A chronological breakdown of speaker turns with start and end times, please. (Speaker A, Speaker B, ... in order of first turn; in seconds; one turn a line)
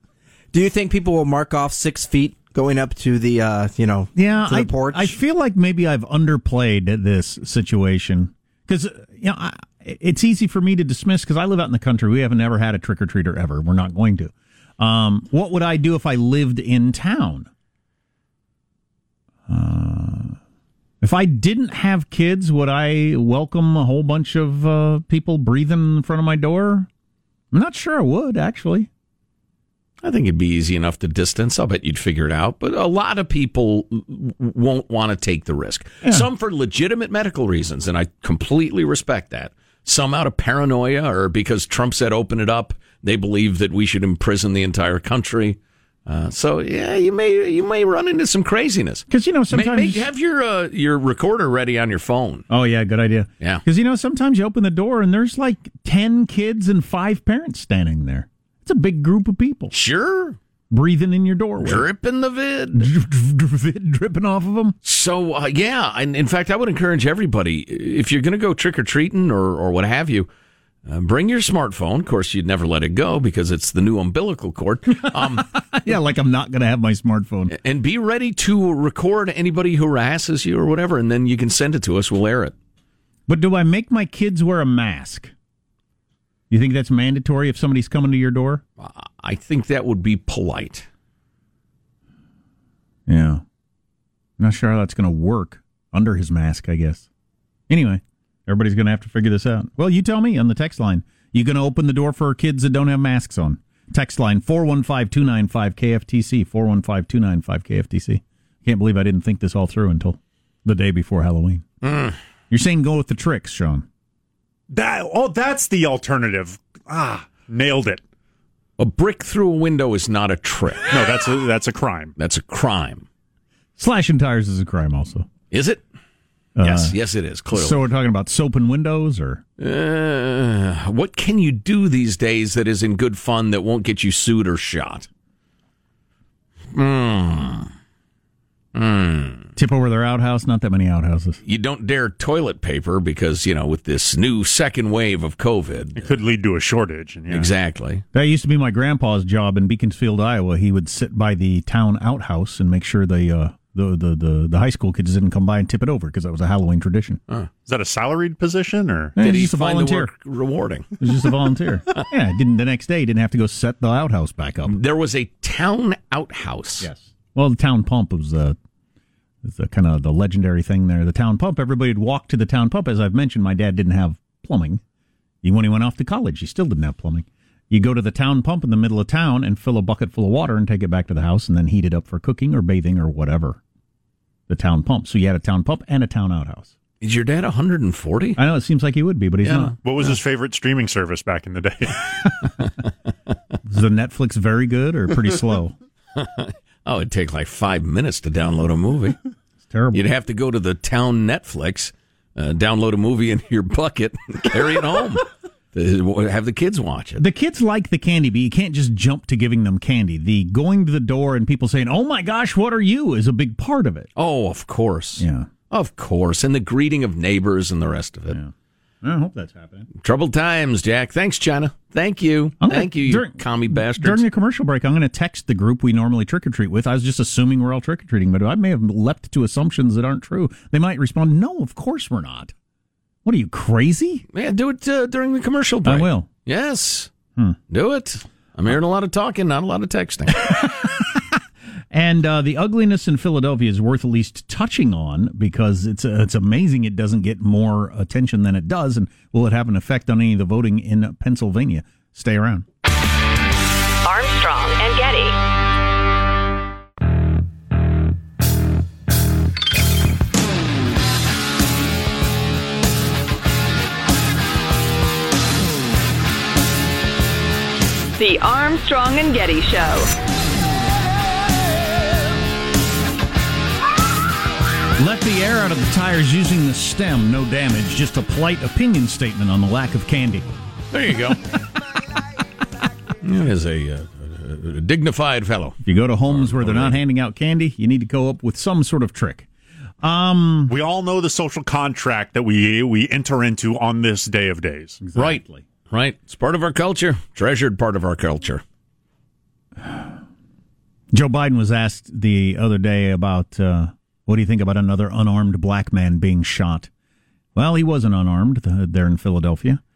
Speaker A: 0.5-5.2
Speaker B: 4.1-17.5
Speaker B: 19.5-20.4
Speaker B: 21.0-26.9
Speaker B: 27.5-28.9
Speaker C: 30.0-52.4
Speaker B: 49.1-50.1
Speaker B: 52.5-59.7
Speaker C: 59.7-60.4
Speaker B: 60.7-61.9
Speaker C: 61.6-62.9
Speaker B: 62.7-64.8
Speaker C: 64.8-70.3
Speaker C: 70.8-75.5
Speaker B: 75.0-77.5
Speaker C: 77.5-82.5
Speaker B: 83.3-85.3
Speaker B: 86.5-88.6
Speaker C: 88.8-90.9
Speaker B: 93.1-93.4
Speaker B: 94.4-97.0
Speaker B: 97.7-111.7
Speaker C: 111.8-112.2
Speaker B: 112.5-113.8
Speaker D: 114.7-118.0
Speaker C: 118.8-120.9
Speaker D: 120.9-122.1
Speaker C: 122.2-123.0
Speaker B: 123.8-125.3
Speaker C: 125.5-125.8
Speaker B: 126.5-126.9
Speaker C: 126.6-127.8
Speaker B: 127.5-129.4
Speaker C: 129.6-135.1
Speaker C: 136.7-137.7
Speaker C: 138.7-139.5
Speaker B: 139.6-141.4
Speaker C: 141.4-146.1
Speaker D: 145.9-147.5
Speaker C: 147.3-148.0
Speaker B: 148.1-157.2
Speaker D: 157.7-159.2
Speaker B: 159.2-160.1
Speaker C: 159.2-161.1
Speaker B: 161.0-164.8
Speaker C: 164.7-166.9
Speaker B: 166.8-168.6
Speaker B: 169.4-174.8
Speaker B: 175.4-183.6
Speaker B: 184.5-186.7
Speaker C: 187.0-188.4
Speaker B: 188.3-189.7
Speaker C: 189.4-189.7
Speaker D: 189.8-192.3
Speaker B: 193.6-195.7
Speaker C: 196.1-199.2
Speaker B: 199.7-200.0
Speaker C: 199.9-207.2
Speaker B: 207.2-214.1
Speaker C: 214.2-218.4
Speaker B: 215.2-215.5
Speaker B: 218.3-219.9
Speaker C: 220.0-224.2
Speaker B: 222.6-232.5
Speaker B: 233.2-234.2
Speaker C: 234.3-237.1
Speaker B: 235.8-236.3
Speaker C: 237.7-240.5
Speaker B: 240.4-252.7
Speaker E: 254.0-255.4
Speaker E: 268.1-270.1
Speaker B: 275.0-280.5
Speaker C: 280.9-281.4
Speaker C: 283.2-287.0
Speaker B: 285.8-289.5
Speaker B: 290.0-290.7
Speaker D: 290.7-295.0
Speaker B: 295.0-295.6
Speaker C: 295.1-298.6
Speaker B: 301.1-306.9
Speaker B: 307.5-309.8